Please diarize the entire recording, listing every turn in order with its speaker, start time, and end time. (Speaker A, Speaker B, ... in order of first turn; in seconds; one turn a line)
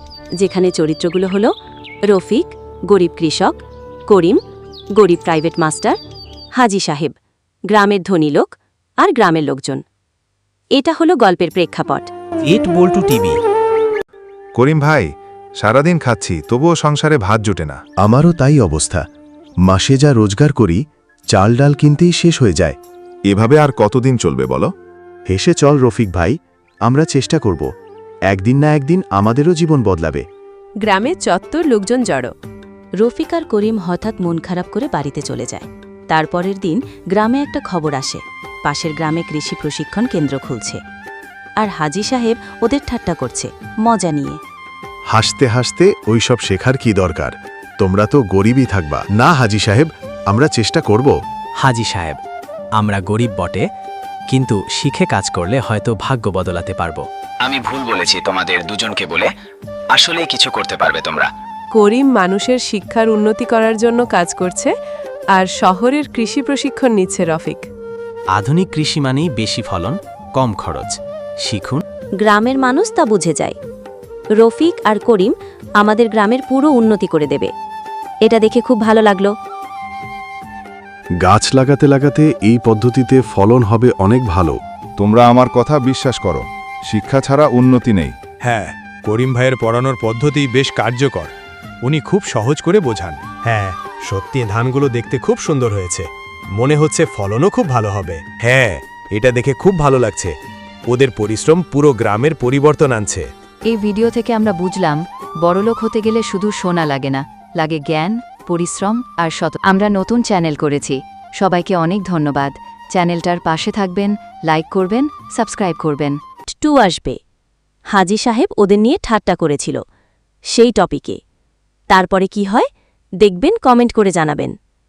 Speaker A: 0.4-1.5
Speaker A: 2.1-4.4
Speaker A: 5.0-6.0
Speaker A: 6.6-7.1
Speaker A: 7.7-9.8
Speaker A: 10.8-12.1
Speaker B: 12.5-13.3
Speaker C: 14.6-17.8
Speaker D: 18.0-19.0
Speaker D: 19.7-20.8
Speaker D: 21.3-22.8
Speaker C: 23.3-24.7
Speaker D: 25.3-27.7
Speaker D: 28.3-30.2
Speaker E: 30.8-32.3
Speaker A: 33.0-40.8
Speaker A: 41.6-44.4
Speaker D: 45.1-51.1
Speaker B: 51.6-52.2
Speaker B: 52.8-53.6
Speaker B: 54.3-57.0
Speaker F: 57.4-59.3
Speaker F: 59.9-61.3
Speaker E: 61.7-64.7
Speaker E: 65.3-67.7
Speaker B: 68.3-71.8
Speaker A: 72.2-73.6
Speaker A: 74.4-77.5
Speaker A: 78.2-79.3
Speaker D: 81.2-84.6
Speaker C: 85.0-88.2
Speaker G: 88.4-91.3
Speaker G: 91.8-100.4
Speaker G: 100.9-103.3
Speaker H: 103.7-116.2
Speaker A: 116.5-117.2
Speaker A: 117.9-119.8
Speaker A: 120.5-121.2
Speaker A: 121.9-122.7
Speaker A: 123.2-124.5